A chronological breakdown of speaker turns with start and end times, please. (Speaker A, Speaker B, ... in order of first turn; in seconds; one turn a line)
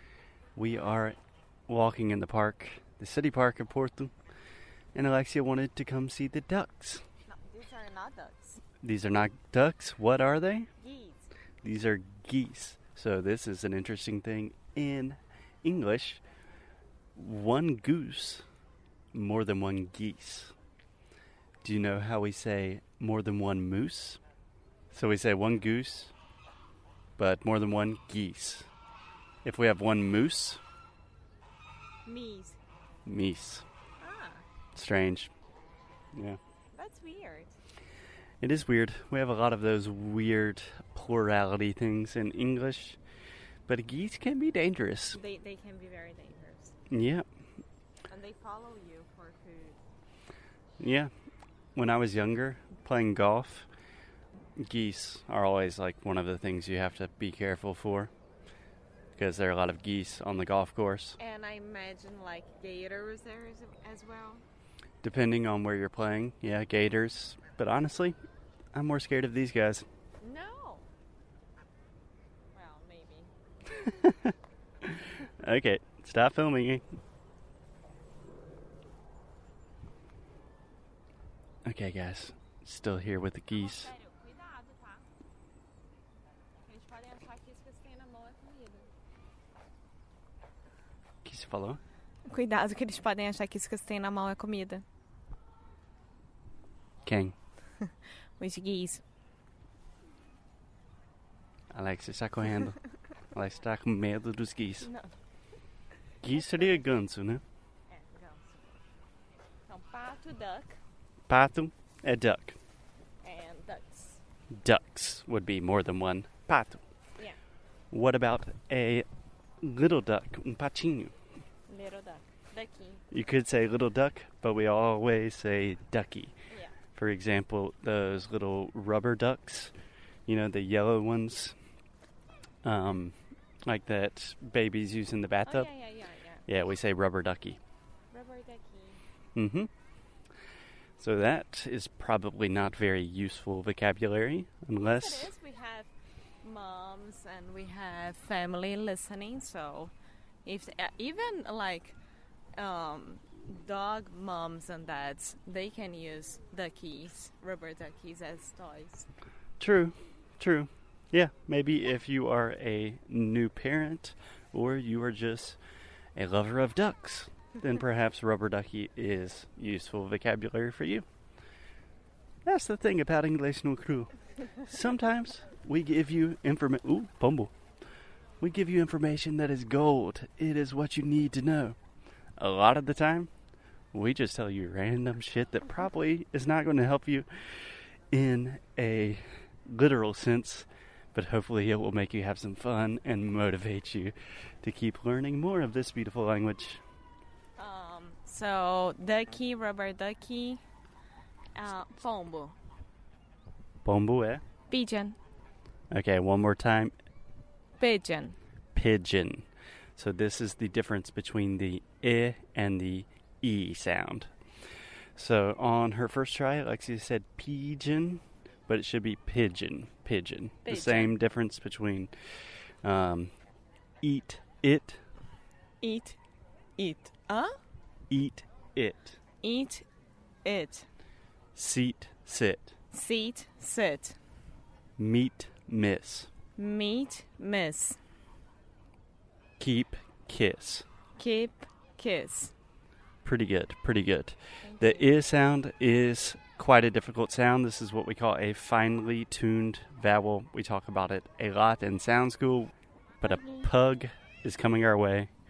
Speaker A: 0.6-1.1
Speaker A: 1.7-4.1
Speaker A: 4.9-7.0
Speaker B: 7.3-8.6
Speaker A: 8.8-10.7
Speaker B: 10.8-11.3
Speaker A: 11.6-16.2
Speaker A: 17.1-18.4
Speaker A: 19.1-20.5
Speaker A: 21.6-24.2
Speaker A: 24.9-26.1
Speaker A: 27.2-28.7
Speaker A: 29.4-30.6
Speaker B: 32.0-32.6
Speaker A: 33.0-33.6
Speaker B: 34.0-34.4
Speaker A: 34.7-35.3
Speaker B: 36.7-37.5
Speaker A: 38.4-43.0
Speaker A: 43.7-45.2
Speaker B: 45.1-46.7
Speaker A: 46.9-47.2
Speaker B: 48.1-49.8
Speaker A: 50.8-51.1
Speaker A: 51.7-53.7
Speaker A: 54.6-58.1
Speaker A: 59.1-61.2
Speaker B: 61.2-64.4
Speaker A: 65.0-68.2
Speaker A: 68.7-69.8
Speaker B: 70.2-70.9
Speaker B: 72.5-73.3
Speaker A: 73.7-76.8
Speaker A: 81.6-83.9
Speaker B: 83.5-85.1
Speaker B: 86.6-88.9
Speaker A: 91.2-91.8
Speaker B: 92.2-94.8
Speaker A: 97.0-97.3
Speaker B: 98.4-99.0
Speaker A: 101.7-102.8
Speaker A: 103.3-104.9
Speaker B: 104.8-105.1
Speaker A: 106.2-107.4
Speaker B: 106.3-106.8
Speaker B: 107.9-108.8
Speaker B: 109.7-110.8
Speaker A: 111.3-112.6
Speaker B: 113.2-114.2
Speaker A: 114.5-116.8
Speaker A: 117.9-119.1
Speaker A: 119.6-121.1
Speaker B: 121.7-123.0
Speaker A: 123.1-126.3
Speaker B: 126.5-126.7
Speaker A: 126.9-129.7
Speaker A: 130.3-131.6
Speaker A: 132.6-133.1
Speaker A: 133.7-135.7
Speaker B: 135.4-136.4
Speaker A: 136.5-137.6
Speaker B: 138.1-139.0
Speaker A: 139.3-139.7
Speaker A: 141.0-145.3
Speaker B: 144.8-149.9
Speaker B: 150.4-152.0
Speaker B: 152.6-159.1
Speaker A: 159.6-165.6
Speaker A: 166.2-171.1
Speaker A: 172.4-174.1
Speaker A: 174.6-177.5
Speaker A: 178.4-181.8
Speaker A: 182.4-183.3
Speaker A: 183.9-196.8
Speaker B: 197.6-200.6
Speaker B: 201.5-202.6
Speaker A: 203.8-204.4
Speaker B: 204.7-205.2
Speaker A: 205.9-206.9
Speaker B: 207.8-208.4
Speaker A: 208.7-214.3
Speaker A: 215.2-222.1
Speaker B: 220.6-221.1
Speaker A: 222.8-223.3
Speaker A: 224.0-225.0
Speaker B: 225.8-226.2
Speaker B: 226.8-227.6
Speaker A: 228.1-229.2
Speaker B: 229.4-229.8
Speaker B: 230.4-230.9
Speaker A: 231.5-232.8
Speaker B: 232.9-234.2
Speaker A: 235.0-236.3
Speaker B: 236.6-238.0
Speaker A: 239.6-240.8
Speaker B: 241.2-242.5
Speaker A: 243.2-255.3
Speaker B: 244.6-245.1
Speaker B: 253.2-253.7